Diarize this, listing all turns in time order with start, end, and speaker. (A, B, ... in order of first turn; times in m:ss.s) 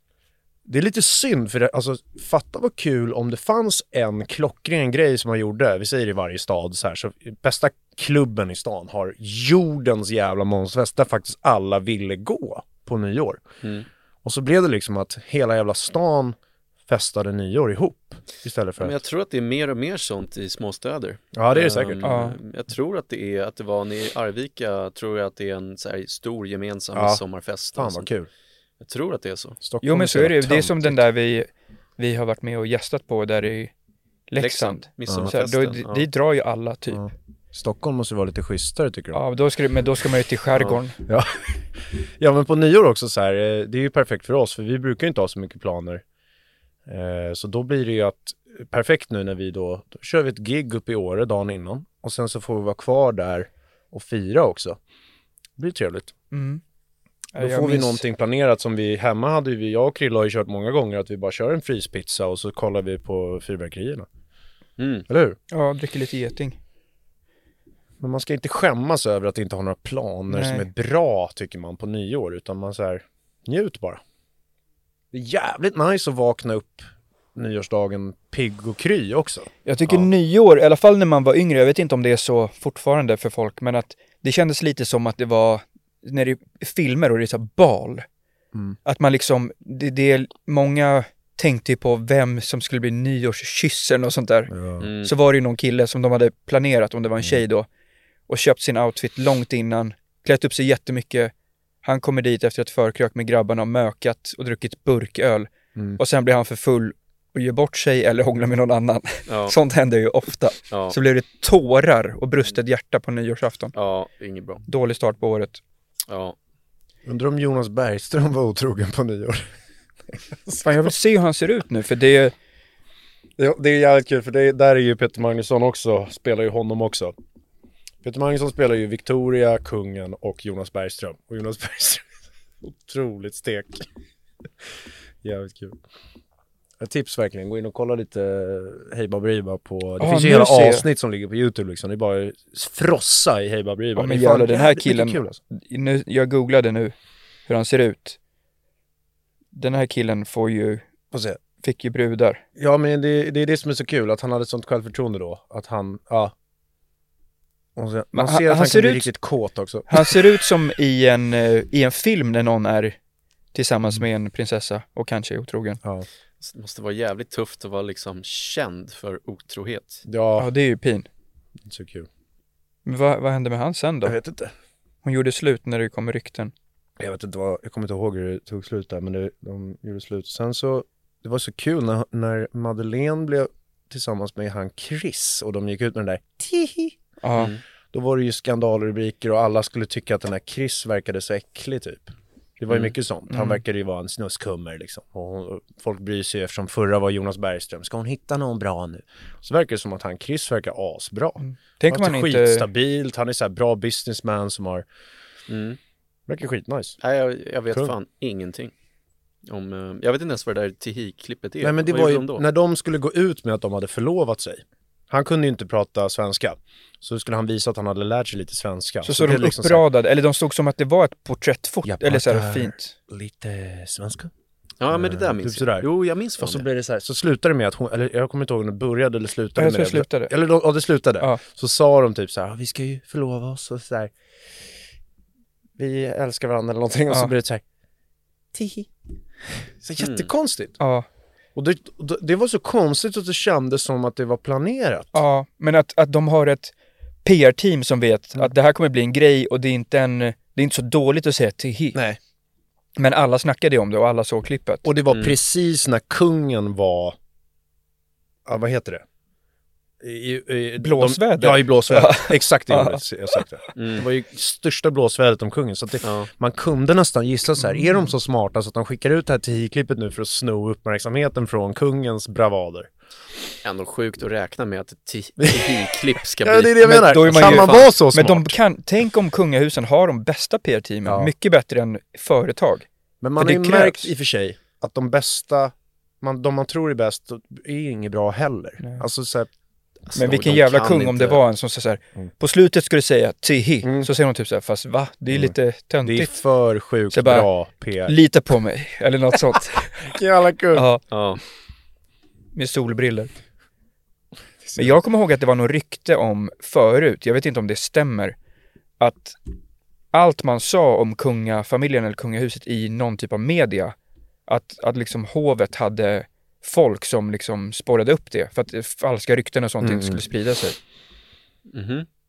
0:00.7-0:13.4 A
0:14.2-0:16.4 A
0:16.9-0:19.0 A
0:18.8-0:28.1 B
0:21.3-0:22.0 A
0:22.0-0:22.4 C
0:27.0-0:27.2 A
0:27.8-0:28.3 A
0:28.8-0:29.6 B
0:29.6-0:31.0 A
0:29.8-0:33.7 C
0:34.3-0:37.1 C
0:34.4-0:36.0 B
0:35.1-0:35.3 A
0:36.9-0:39.2 A
0:39.1-0:41.0 C
0:40.6-0:46.0 A
0:46.9-0:54.8 A
0:55.6-0:56.1 A
0:56.3-0:56.6 C
0:57.3-0:58.0 C
0:57.4-1:04.1 A
1:04.8-1:05.1 B
1:05.1-1:05.4 A
1:05.5-1:06.6 C
1:08.0-1:14.0 A
1:10.3-1:10.7 C
1:15.1-1:20.0 A
1:19.7-1:28.1 C
1:28.8-1:37.7 C
1:34.5-1:34.9 A
1:34.8-1:35.1 B
1:38.3-1:41.3 C
1:41.8-1:53.7 C
1:49.3-1:49.6 B
1:50.7-1:51.0 B
1:53.8-1:54.6 B
1:54.7-1:55.6 C
1:56.1-1:56.4 B
1:57.1-1:59.5 A
2:00.1-2:00.9 A
2:00.6-2:02.3 C
2:03.4-2:07.1 A
2:08.0-2:12.1 A
2:12.6-2:13.9 A
2:15.2-2:15.8 A
2:16.8-2:25.4 A
2:20.0-2:20.9 C
2:24.0-2:27.0 C
2:27.5-2:28.2 C
2:29.5-2:30.8 C
2:31.1-2:31.4 A
2:31.6-2:32.4 C
2:32.6-2:36.3 A
2:37.8-2:40.2 A
2:38.1-2:39.1 C
2:39.9-2:43.0 C
2:43.5-2:45.8 C
2:46.4-2:50.0 B
2:50.1-2:50.5 A
2:50.4-2:51.1 C
2:51.6-2:52.1 A
2:52.9-2:54.2 C
2:54.0-2:54.5 A
2:55.0-2:56.5 C
2:57.0-3:07.0 A
3:07.2-3:07.5 C
3:07.9-3:24.9 A
3:13.3-3:13.6 C
3:21.4-3:22.7 C
3:25.5-3:25.8 B
3:26.3-3:27.0 A
3:27.0-3:28.7 B
3:29.5-3:32.4 B
3:31.6-3:39.8 A
3:39.0-3:42.9 C
3:41.8-3:44.3 A
3:44.8-3:46.6 B
3:44.9-3:45.9 A
3:46.4-3:54.1 A
3:49.6-3:50.3 C
3:55.8-3:57.6 A
3:58.5-3:58.9 A
3:59.5-4:00.8 A
4:00.0-4:00.3 B
4:00.8-4:01.1 C
4:01.6-4:05.2 A
4:05.1-4:06.7 C
4:07.2-4:12.0 C
4:11.9-4:12.2 A
4:13.0-4:14.9 C
4:14.8-4:17.2 A
4:18.5-4:19.0 A
4:20.0-4:32.9 A
4:20.8-4:23.4 C
4:23.8-4:24.1 B
4:26.0-4:26.3 B
4:27.6-4:28.1 C
4:33.6-4:37.9 B
4:35.4-4:38.6 A
4:36.8-4:42.9 C
4:41.0-4:41.3 A
4:43.2-4:49.5 A
4:43.4-4:44.1 C
4:48.8-4:49.1 C
4:50.1-4:51.4 B
4:50.2-4:56.3 C
4:53.8-4:54.1 A
4:55.3-4:58.2 A
4:57.1-4:57.5 C
4:58.0-5:00.1 C
5:00.0-5:00.9 A
5:00.7-5:01.0 C
5:01.1-5:01.4 B
5:02.6-5:03.3 C
5:04.6-5:05.0 A
5:04.8-5:08.4 C
5:09.0-5:09.4 C
5:10.1-5:14.0 C
5:14.5-5:20.8 C
5:19.8-5:20.2 A
5:21.7-5:22.1 B